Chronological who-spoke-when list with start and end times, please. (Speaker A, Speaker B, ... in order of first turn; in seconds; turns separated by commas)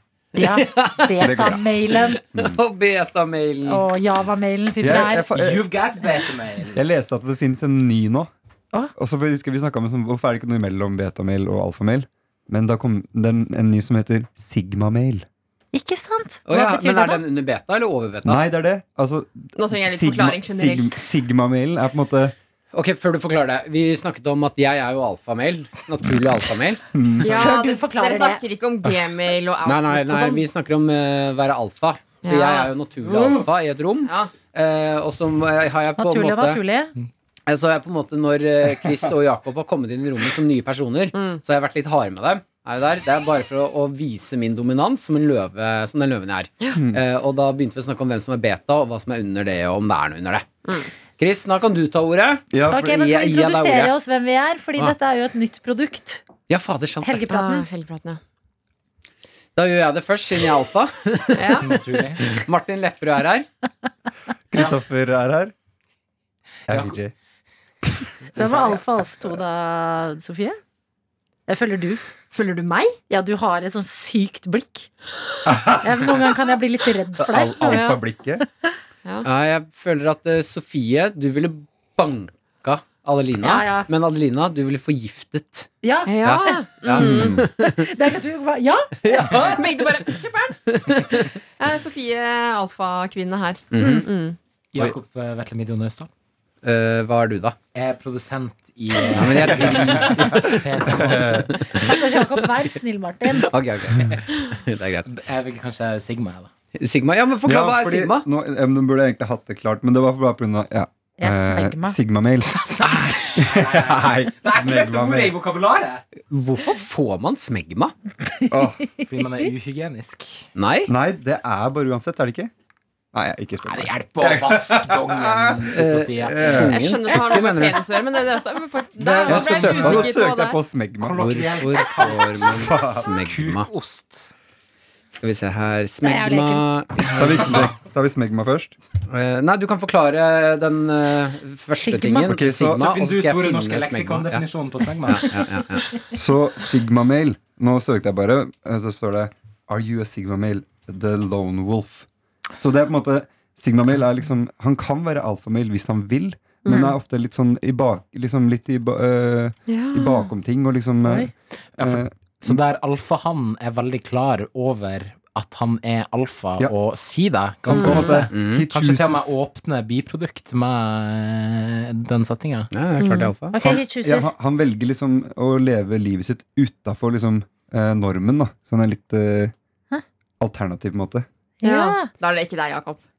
Speaker A: 0.3-2.2, Speaker B: 0.4-3.9, Speaker C: 1.1-1.6, Speaker C: 2.3-2.6, Speaker A: 3.6-5.5, Speaker C: 4.8-5.7, Speaker D: 5.3-6.8, Speaker C: 6.7-8.3, Speaker C: 8.9-15.2, Speaker A: 15.7-17.2, Speaker B: 16.5-18.4, Speaker C: 18.2-22.3, Speaker E: 19.6-21.0, Speaker B: 22.7-26.8, Speaker C: 26.9-27.6, Speaker A: 27.2-28.4, Speaker E: 27.2-30.5, Speaker B: 29.6-36.6, Speaker E: 32.2-33.4, Speaker E: 34.0-34.3, Speaker A: 36.0-36.9, Speaker B: 37.5-50.5, Speaker E: 41.1-41.4, Speaker C: 46.7-47.0, Speaker B: 51.2-53.9, Speaker C: 52.5-53.0, Speaker A: 52.7-56.2, Speaker B: 56.5-57.2, Speaker A: 57.0-57.7, Speaker E: 57.2-58.2, Speaker B: 59.5-63.5, Speaker E: 61.3-61.7, Speaker D: 61.6-62.4, Speaker C: 64.5-65.5, Speaker C: 66.7-67.1, Speaker D: 66.7-66.9, Speaker C: 67.9-68.8, Speaker A: 68.3-70.6, Speaker A: 71.5-72.0, Speaker E: 72.3-73.0, Speaker A: 73.1-74.9, Speaker C: 75.4-76.3, Speaker A: 75.8-78.7, Speaker C: 77.2-78.4, Speaker E: 77.6-78.0, Speaker B: 79.2-85.7, Speaker A: 83.4-83.9, Speaker A: 85.8-88.9, Speaker E: 86.0-87.4, Speaker B: 86.2-87.8, Speaker C: 87.0-87.3, Speaker B: 89.0-90.0, Speaker E: 89.2-94.4, Speaker B: 90.7-91.3, Speaker B: 93.7-94.1, Speaker A: 93.8-94.0, Speaker D: 94.7-96.1, Speaker B: 96.6-97.6, Speaker D: 97.7-101.5, Speaker B: 99.1-101.0, Speaker C: 99.2-101.5, Speaker A: 101.7-103.5, Speaker B: 101.7-102.0, Speaker B: 103.3-105.1, Speaker D: 105.1-106.5, Speaker B: 106.8-108.2, Speaker C: 107.4-112.5, Speaker A: 111.2-112.0, Speaker B: 112.8-113.5, Speaker C: 113.3-115.4, Speaker D: 113.4-116.0, Speaker B: 116.3-117.9, Speaker A: 118.4-119.1, Speaker C: 118.5-118.9, Speaker D: 119.0-120.5, Speaker B: 120.5-120.9, Speaker C: 120.9-122.5, Speaker C: 123.1-126.9, Speaker D: 123.6-126.7, Speaker B: 125.7-127.9, Speaker E: 126.6-130.6, Speaker C: 129.0-131.4, Speaker B: 129.3-130.1, Speaker D: 129.3-129.9, Speaker D: 131.0-134.3, Speaker B: 131.2-133.7, Speaker C: 132.5-133.1, Speaker B: 135.1-137.7, Speaker A: 136.0-136.7, Speaker C: 137.1-138.7, Speaker B: 139.1-144.4, Speaker A: 141.8-142.3, Speaker C: 142.3-142.9, Speaker D: 142.7-145.6, Speaker B: 145.0-145.9, Speaker C: 146.1-162.6, Speaker E: 156.6-156.9, Speaker E: 159.7-160.2, Speaker A: 161.0-161.3, Speaker D: 161.8-172.7, Speaker C: 167.7-169.3, Speaker E: 167.7-168.2, Speaker B: 168.3-168.6, Speaker B: 172.7-173.8, Speaker E: 173.0-173.3, Speaker A: 173.5-174.3, Speaker C: 174.0-179.5, Speaker C: 180.4-181.2, Speaker A: 181.6-182.1, Speaker E: 181.6-183.0